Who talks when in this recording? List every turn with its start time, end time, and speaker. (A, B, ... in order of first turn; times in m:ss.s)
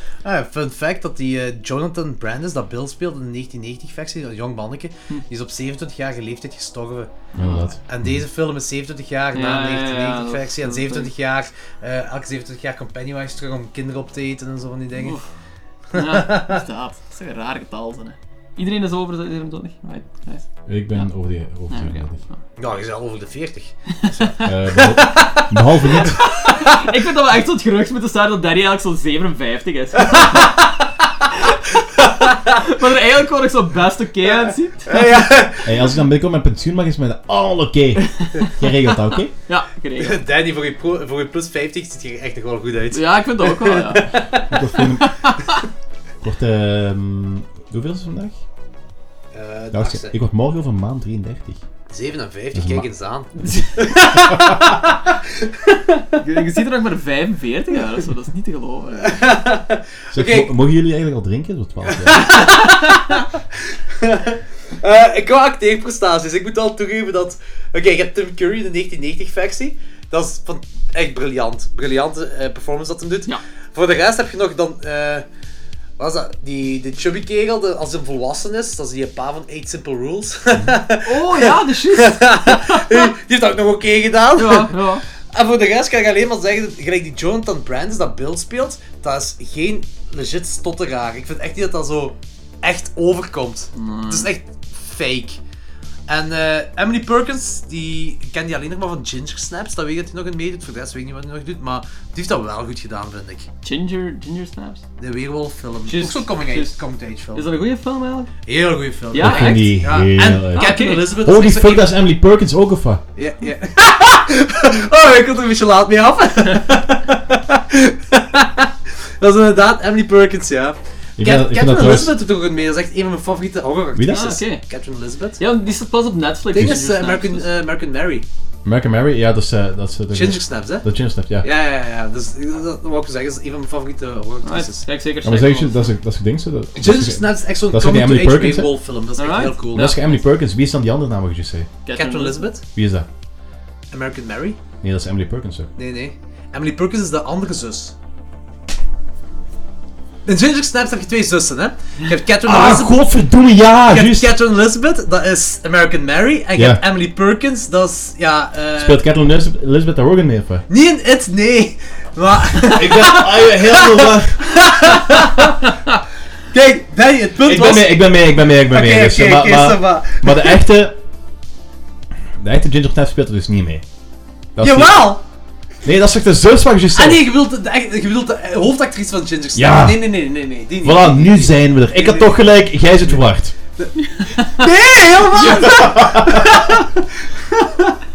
0:00.2-0:07.3 A
0:07.3-0:07.7 B
0:07.4-0:08.2 C
0:07.8-0:15.2 A
0:09.3-0:11.1 B
0:15.0-0:15.2 B
0:15.9-0:16.6 A
0:15.9-0:20.4 B
0:20.7-0:22.2 C
0:21.7-0:22.4 B
0:22.6-0:26.8 A
0:24.0-0:24.3 B
0:24.4-0:26.2 C
0:25.9-0:30.6 B
0:30.0-0:30.7 A
0:31.3-0:35.2 B
0:32.0-0:32.6 A
0:34.9-0:35.8 A
0:35.6-0:39.3 C
0:38.0-0:40.2 B
0:40.0-0:44.8 A
0:42.9-0:44.2 B
0:44.3-0:45.3 C
0:44.8-0:45.6 B
0:46.2-0:48.4 C
0:49.3-0:50.1 A
0:49.7-0:51.6 C
0:51.9-0:56.2 A
0:52.5-0:52.9 C
0:56.2-0:59.2 B
0:59.0-1:00.5 A
1:00.1-1:02.5 C
1:01.9-1:15.2 A
1:02.3-1:03.2 B
1:16.0-1:24.8 A
1:21.0-1:23.1 B
1:24.4-1:25.0 B
1:25.3-1:35.4 A
1:33.8-1:34.3 B
1:36.1-1:43.5 A
1:43.6-1:44.8 B
1:45.0-1:47.5 A
1:45.9-1:46.8 B
1:47.3-1:48.3 B
1:48.5-1:51.9 A
1:49.1-1:49.7 B
1:49.2-1:53.0 C
1:50.6-1:51.1 B
1:53.2-2:05.4 A
2:01.2-2:02.2 C
2:04.0-2:04.4 C
2:04.1-2:04.6 B
2:05.4-2:07.4 B
2:06.5-2:08.3 A
2:08.6-2:11.5 C
2:10.1-2:10.9 A
2:11.4-2:14.8 A
2:14.4-2:15.9 B
2:15.2-2:18.8 C
2:16.8-2:20.0 A
2:19.2-2:20.2 B
2:19.7-2:21.7 C
2:21.9-2:22.5 B
2:21.9-2:22.6 A
2:22.7-2:23.1 C
2:23.9-2:24.6 A
2:24.8-2:25.7 C
2:25.8-2:28.0 A
2:30.3-2:33.0 A
2:32.4-2:34.4 C
2:33.9-2:39.0 A
2:36.6-2:36.8 C
2:38.8-2:40.6 C
2:40.7-2:45.9 A
2:42.5-2:44.9 C
2:46.5-2:48.1 A
2:47.4-2:51.0 C
2:48.6-2:50.6 A
2:52.4-2:53.8 C
2:54.6-2:55.2 C
2:54.6-2:55.2 A
2:55.8-2:57.3 C
2:57.0-3:02.4 A
2:59.6-3:00.0 C
3:00.8-3:03.5 C
3:03.8-3:08.0 A
3:05.4-3:05.9 B
3:05.6-3:06.6 C